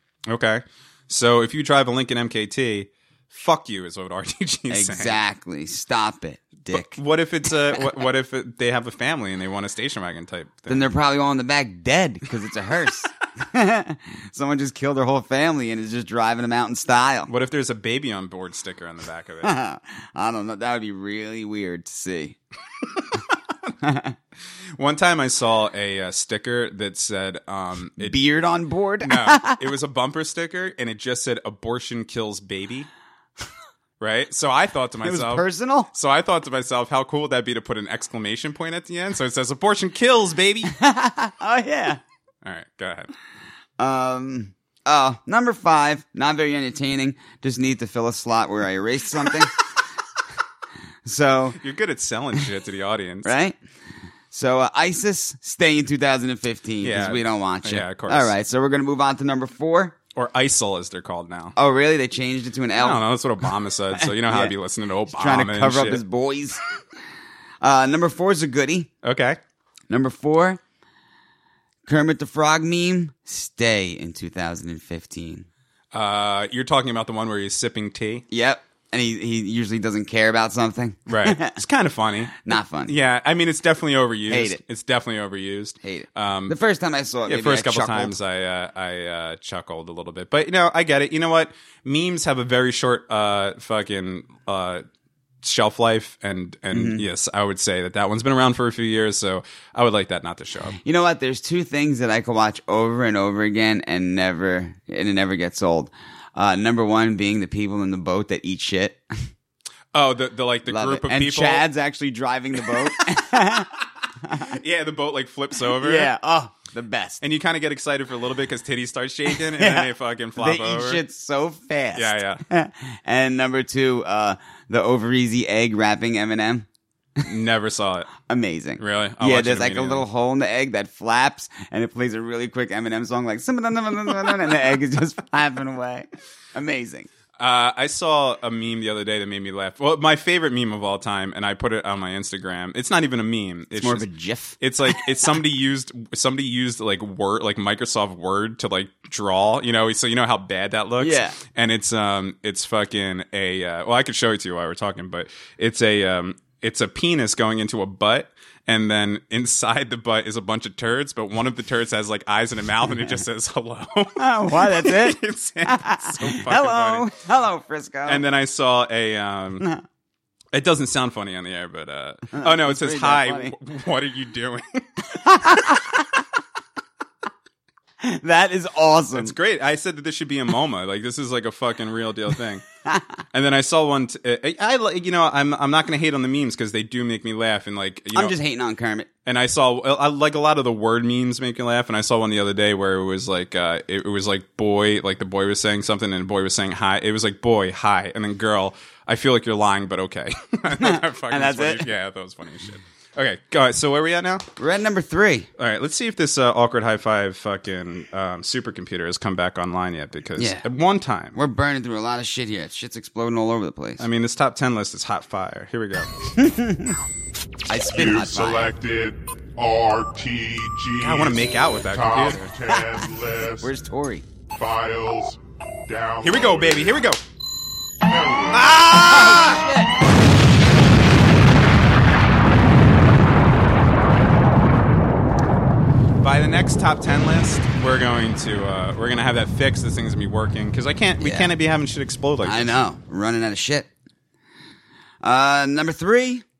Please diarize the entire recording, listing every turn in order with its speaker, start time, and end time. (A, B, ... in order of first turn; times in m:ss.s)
0:00.3-0:05.2 A
0:04.7-0:07.0 B
0:06.7-0:10.9 A
0:10.7-0:17.3 B
0:17.3-0:19.5 A
0:19.4-0:22.4 B
0:23.8-0:24.2 B
0:24.8-0:28.2 A
0:28.0-0:29.6 B
0:29.0-0:32.9 A
0:34.0-0:40.7 A
0:35.0-0:35.9 B
0:40.7-0:42.0 B
0:42.4-0:43.1 A
0:43.8-0:49.6 B
0:51.0-0:51.6 B
0:51.6-0:53.3 A
0:53.2-0:53.6 B
0:54.3-1:00.0 B
0:56.8-0:58.3 A
1:00.1-1:01.5 A
1:01.6-1:03.0 B
1:02.8-1:06.0 A
1:04.0-1:04.5 B
1:05.1-1:06.6 B
1:07.6-1:08.9 B
1:09.0-1:09.4 A
1:09.9-1:10.6 B
1:11.9-1:15.5 B
1:15.9-1:18.2 A
1:18.3-1:21.6 B
1:21.1-1:26.6 A
1:22.4-1:22.9 B
1:24.3-1:24.6 B
1:25.8-1:28.1 B
1:27.2-1:34.8 A
1:35.4-1:40.8 A
1:36.7-1:37.0 B
1:40.8-1:49.0 B
1:49.9-1:51.7 A
1:50.7-1:53.7 B
1:54.2-1:54.5 B
1:54.4-1:56.1 A
1:55.8-1:57.2 B
1:57.2-2:01.0 A
1:59.3-2:06.6 B
2:01.9-2:02.4 A
2:07.2-2:08.1 A
2:08.3-2:17.1 B
2:08.8-2:10.0 A
2:17.4-2:24.0 A
2:23.7-2:25.0 B
2:24.6-2:47.1 A
2:31.0-2:31.4 B
2:44.2-2:48.2 B
2:48.0-2:49.7 A
2:50.5-2:55.6 A
2:52.3-2:53.5 B
2:55.2-2:56.2 B
2:58.0-2:59.3 B
2:59.1-3:02.6 A
3:03.3-3:08.3 A
3:08.1-3:09.1 B
3:09.2-3:24.5 A
3:20.8-3:21.9 B
3:24.6-3:25.5 B
3:25.6-3:31.4 A
3:30.4-3:30.6 B
3:31.3-3:34.0 B
3:34.0-3:36.1 A
3:36.4-3:37.0 B
3:37.7-3:38.7 B
3:37.9-3:43.7 C
3:41.0-3:42.5 A
3:43.6-3:44.2 B
3:44.5-3:47.1 C
3:46.2-3:47.2 A
3:48.0-3:48.8 C
3:48.5-3:49.7 A
3:48.9-3:49.9 B
3:56.2-4:02.8 A
4:01.2-4:01.5 B
4:02.4-4:03.9 B
4:05.2-4:06.4 B